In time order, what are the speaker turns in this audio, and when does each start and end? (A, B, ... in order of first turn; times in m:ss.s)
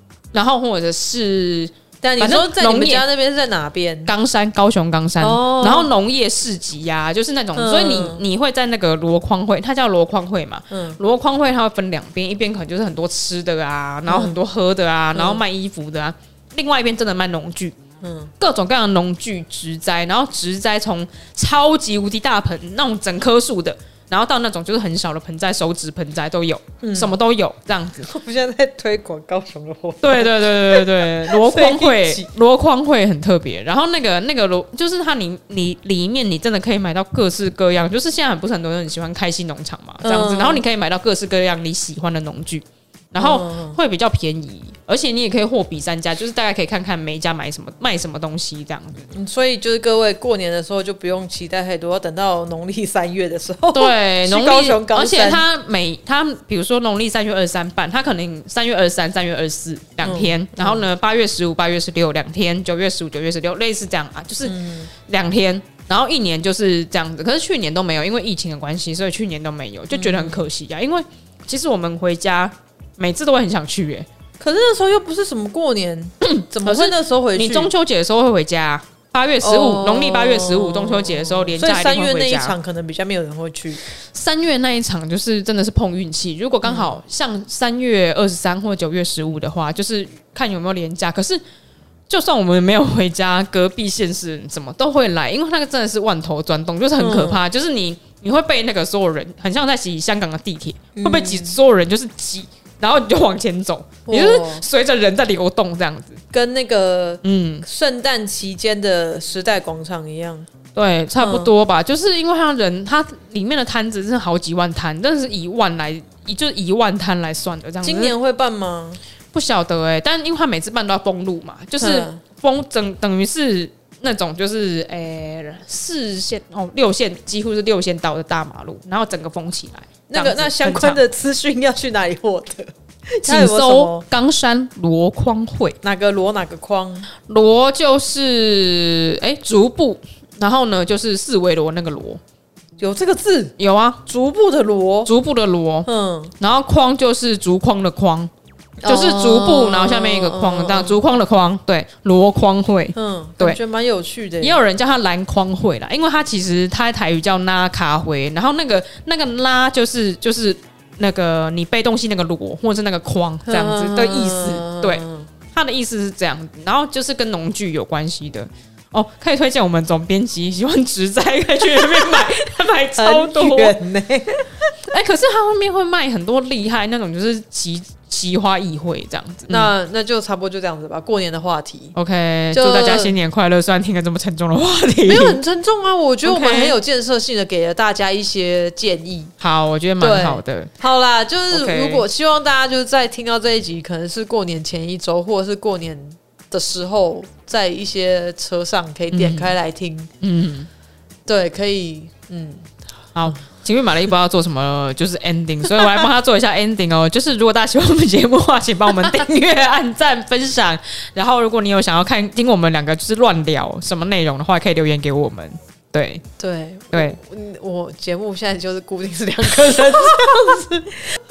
0:00.3-0:03.0 A
0:02.0-0:04.1 B
0:04.0-0:17.8 A
0:05.2-0:05.9 B
0:07.5-0:08.2 B
0:10.7-0:11.0 B
0:14.0-0:14.4 B
0:15.1-0:15.4 B
0:18.0-0:18.3 B
0:18.4-0:28.1 A
0:26.8-0:27.2 B
0:28.0-0:32.3 B
0:30.0-0:49.1 A
0:40.0-0:40.6 B
0:43.2-0:43.8 B
0:49.1-0:55.4 B
0:53.7-1:14.1 A
1:00.0-1:00.8 B
1:04.4-1:04.9 B
1:09.9-1:10.4 B
1:14.4-1:17.7 B
1:16.2-1:22.6 A
1:19.4-1:23.8 B
1:24.1-1:31.4 A
1:26.6-1:26.9 B
1:32.1-1:46.2 A
1:37.0-1:37.4 B
1:41.0-1:41.6 B
1:44.0-1:44.6 B
1:46.3-1:50.5 B
1:47.2-1:47.6 A
1:50.7-1:58.1 A
1:51.2-1:51.5 B
1:57.8-1:59.0 B
1:59.3-2:11.0 A
2:01.8-2:02.2 B
2:10.1-2:14.0 B
2:13.2-2:15.8 A
2:15.8-2:17.1 B
2:17.2-2:22.2 A
2:22.8-2:23.5 B
2:23.6-2:24.0 A
2:24.0-2:25.1 B
2:25.0-2:25.9 A
2:25.8-2:26.3 B
2:26.4-2:28.3 A
2:28.8-2:31.0 B
2:28.8-2:33.6 A
2:32.9-2:34.6 B
2:34.4-2:53.8 A
2:43.4-2:45.3 B
2:53.0-2:54.5 B
2:54.8-2:59.7 A
2:59.5-3:02.0 B
3:01.9-3:05.4 A
3:02.5-3:03.1 B
3:05.1-3:09.3 B
3:06.2-3:06.8 A
3:09.4-3:10.7 A
3:10.0-3:20.1 B
3:11.5-3:12.0 A
3:19.1-3:19.5 A
3:20.2-3:20.7 A
3:21.3-3:22.7 B
3:23.1-3:36.2 A
3:36.4-3:41.1 B
3:36.9-3:37.2 A